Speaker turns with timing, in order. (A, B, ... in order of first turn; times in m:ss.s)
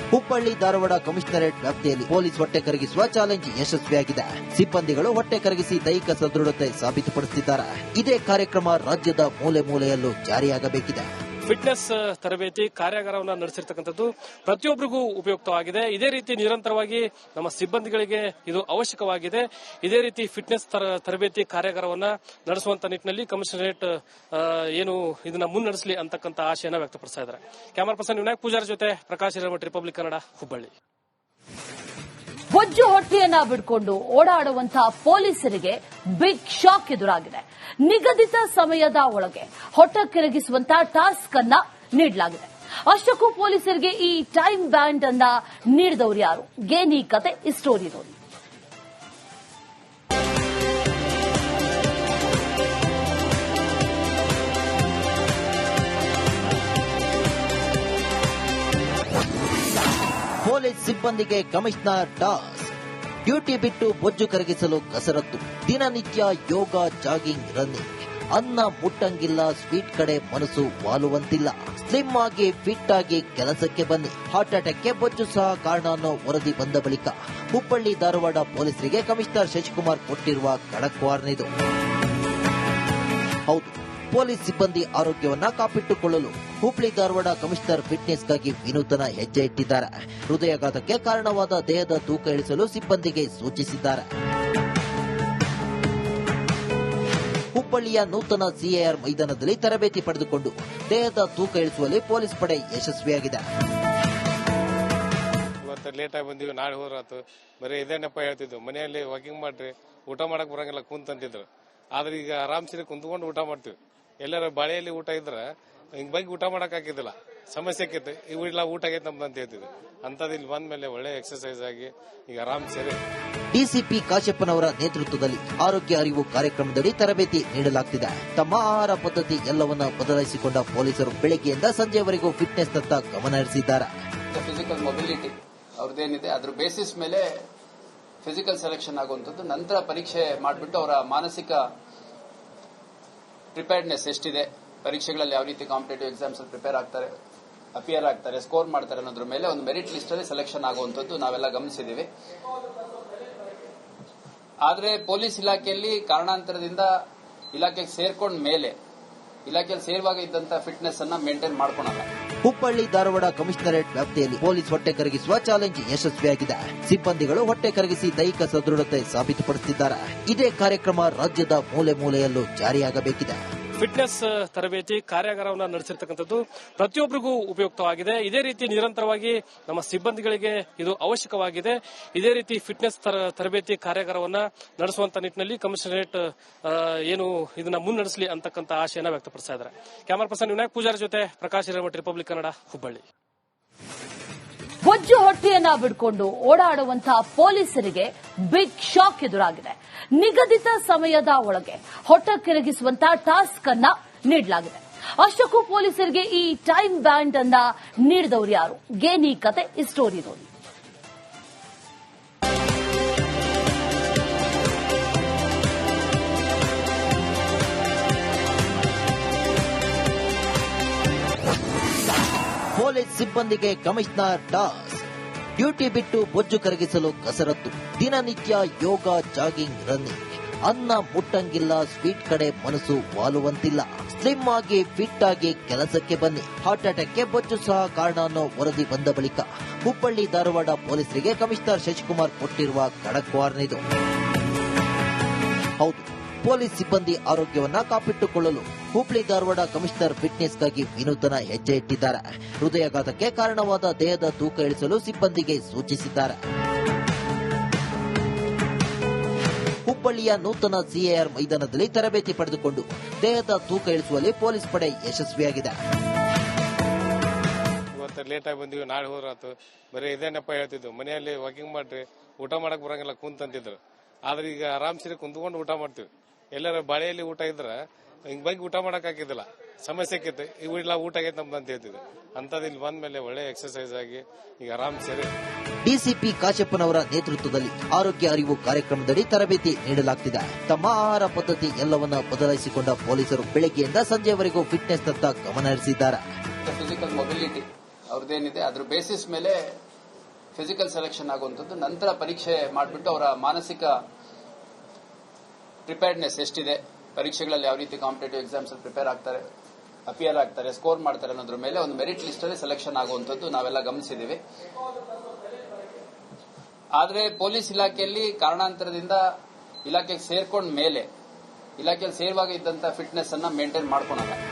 0:00.1-0:11.1 A
0:11.5-0:30.7 B
0:32.5-0:48.2 C
1:00.4-1:02.7 A
1:03.2-1:21.5 A
1:23.5-1:34.1 A
1:37.6-1:43.4 A
1:45.6-1:55.4 D
1:56.0-2:03.0 D
2:03.5-2:13.9 A
2:14.3-2:17.3 E
2:18.2-2:21.6 E
2:23.6-2:27.1 E
2:27.8-2:32.1 E
2:34.6-2:36.9 E
2:37.5-2:38.8 E
2:39.5-2:42.1 E
2:42.4-2:53.4 A
2:53.8-3:13.0 B
3:14.8-3:30.5 C
3:42.7-3:45.0 A
3:45.6-4:03.8 A
4:05.8-4:16.4 A
4:19.9-4:25.8 A
4:28.0-4:37.8 D
4:38.3-4:45.3 D
4:45.8-4:56.2 A
4:56.6-4:59.6 E
5:00.6-5:04.0 E
5:05.9-5:09.4 E
5:10.1-5:14.4 E
5:17.0-5:19.2 E
5:19.8-5:21.1 E
5:21.8-5:24.4 E